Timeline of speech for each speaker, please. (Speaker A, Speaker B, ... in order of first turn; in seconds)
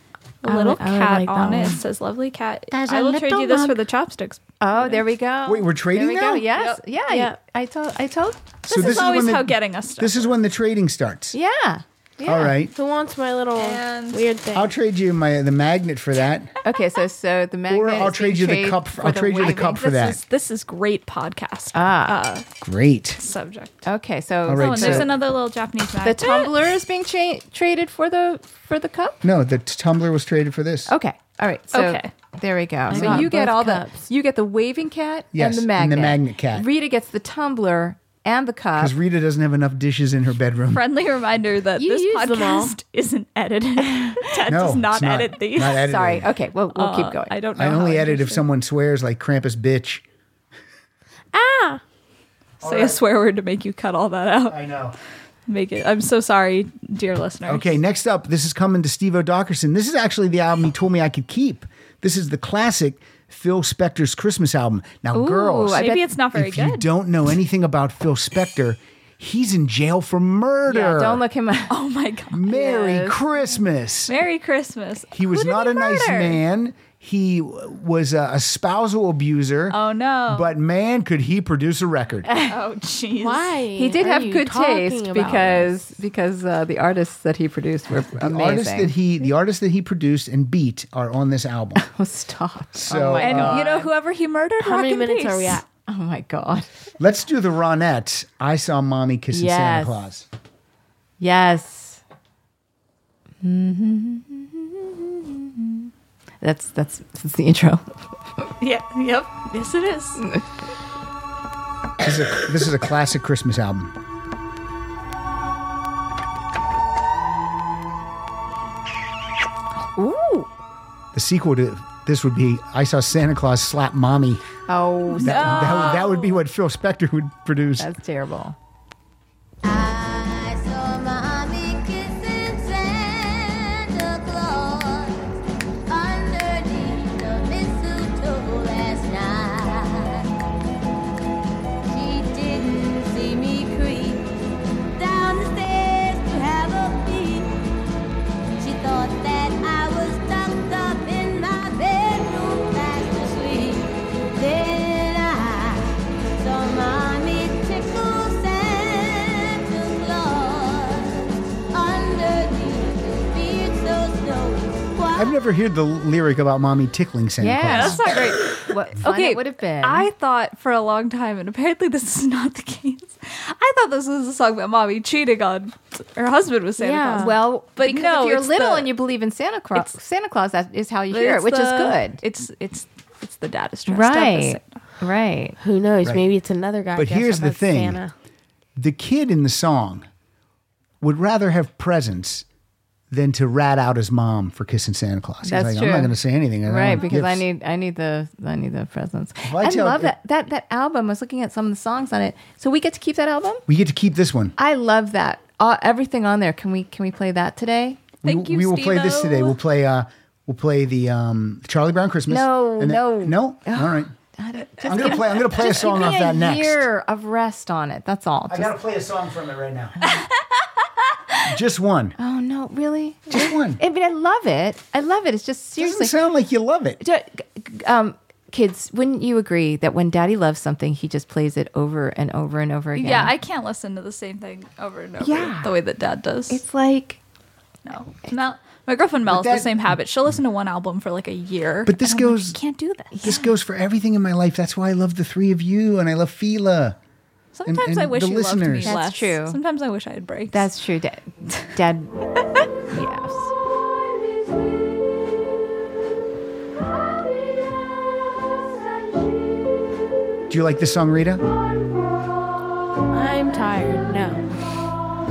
Speaker A: 0.4-5.0, 6.5-6.8, 8.7-10.4, 13.6-14.3, 19.7-22.5, 23.2-23.8, 24.5-26.6, 31.7-32.1, 40.7-45.9, 46.7-48.5, 52.6-54.6, 55.5-57.8, 65.7-66.9, 71.7-72.4, 74.1-76.4, 79.7-80.6, 82.4-83.6, 93.2-95.6, 108.6-110.2, 125.2-126.4, 167.6-179.0, 181.1-184.7, 208.2-209.6, 232.9-236.6, 237.9-243.4, 247.5-250.7
Speaker B: 0.5-1.8, 7.1-7.3, 12.7-14.7, 32.9-34.1, 41.8-42.7, 51.3-51.8, 83.2-85.7, 94.6-95.6, 176.8-177.3, 185.6-188.1, 263.1-264.4
Speaker C: 2.7-3.6, 5.5-6.5, 8.7-11.4, 12.2-12.7, 14.5-16.5, 17.7-20.2, 22.6-23.2, 24.5-25.1, 29.2-30.9, 32.9-33.3, 35.3-36.7, 38.8-40.8, 44.5-46.3, 47.5-50.0, 52.6-53.0, 54.5-55.0, 57.5-71.2, 72.3-74.1, 75.1-82.3, 88.2-91.8, 92.7-93.8, 97.0-100.3, 112.0-113.9, 121.1-124.5, 125.2-127.9, 165.2-168.1, 186.9-188.0, 188.8-190.1, 191.0-192.4, 193.1-197.4, 199.4-200.1, 203.7-204.6, 208.2-214.1, 214.8-216.9, 218.5-219.9, 221.4-222.2, 223.3-223.8, 225.8-227.0, 239.2-240.0, 241.9-242.6, 243.2-247.0, 247.7-249.0, 260.5-261.4
Speaker D: 2.9-3.7, 4.6-8.4, 11.3-12.5, 16.6-19.9, 21.7-22.2, 23.8-25.1, 26.0-29.2, 30.9-38.9, 45.8-47.4, 65.1-66.1, 70.7-71.7, 72.5-73.2, 82.3-82.5, 83.8-88.9, 91.8-93.9, 95.9-96.7, 99.3-100.0, 101.2-102.0, 103.4-105.9, 106.4-108.0, 120.0-120.5, 124.7-126.0, 127.8-128.6, 167.4-170.1, 177.2-182.2, 183.9-185.6, 195.4-196.1, 196.7-203.6, 204.6-208.1, 212.3-218.7, 222.2-226.1, 227.0-233.3, 235.2-235.7, 236.5-237.2, 243.1-243.4, 248.8-249.6, 250.5-252.2, 252.9-253.4
Speaker E: 129.6-135.4, 135.9-140.3, 141.9-144.3, 144.9-147.6, 148.6-165.4